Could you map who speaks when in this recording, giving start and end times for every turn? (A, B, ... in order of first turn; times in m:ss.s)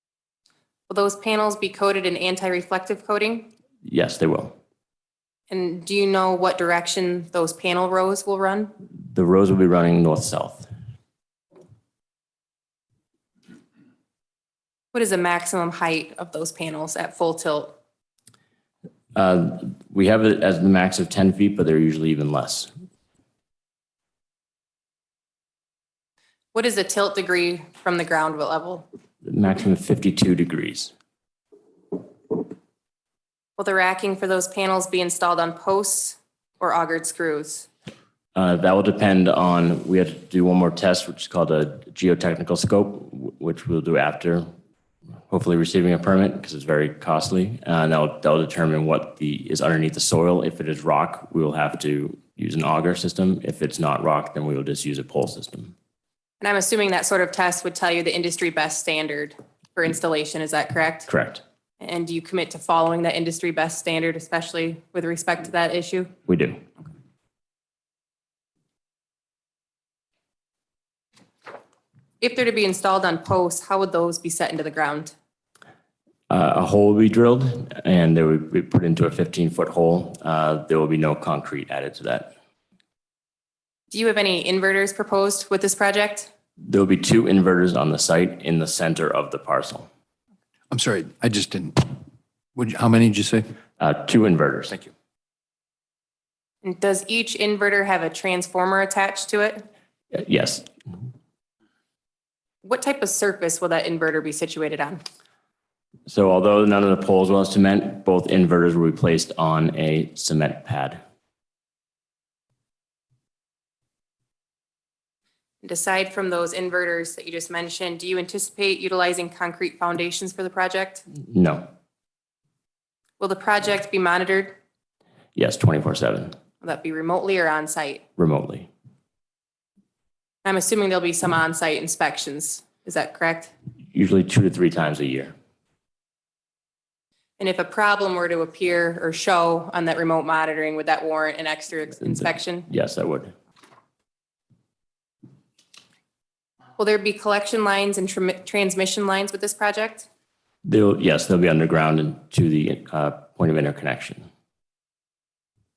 0:00.9-0:03.5 A
0:03.8-0:04.6 B
0:05.5-0:08.7 A
0:09.1-0:10.7 B
0:14.9-0:17.8 A
0:19.2-0:22.7 B
0:26.5-0:28.9 A
0:29.2-0:30.9 B
0:33.6-0:37.7 A
0:38.4-0:44.5 B
0:45.3-0:55.7 B
0:56.4-1:01.1 A
1:01.1-1:01.4 B
1:01.8-1:06.1 A
1:06.3-1:06.6 B
1:12.2-1:15.1 A
1:16.3-1:22.3 B
1:23.9-1:26.3 A
1:26.6-1:29.9 B
1:30.7-1:32.0 C
1:32.6-1:33.5 C
1:33.8-1:34.8 B
1:36.6-1:39.7 A
1:40.1-1:40.7 B
1:42.6-1:45.0 A
1:46.1-1:51.0 B
1:55.6-2:01.0 A
2:01.2-2:01.7 B
2:03.2-2:04.6 A
2:05.4-2:06.4 B
2:06.6-2:08.0 A
2:08.2-2:08.7 B
2:10.4-2:13.5 A
2:13.9-2:15.4 B
2:17.4-2:22.7 A
2:22.7-2:23.4 B
2:26.8-2:30.1 A
2:30.6-2:34.3 B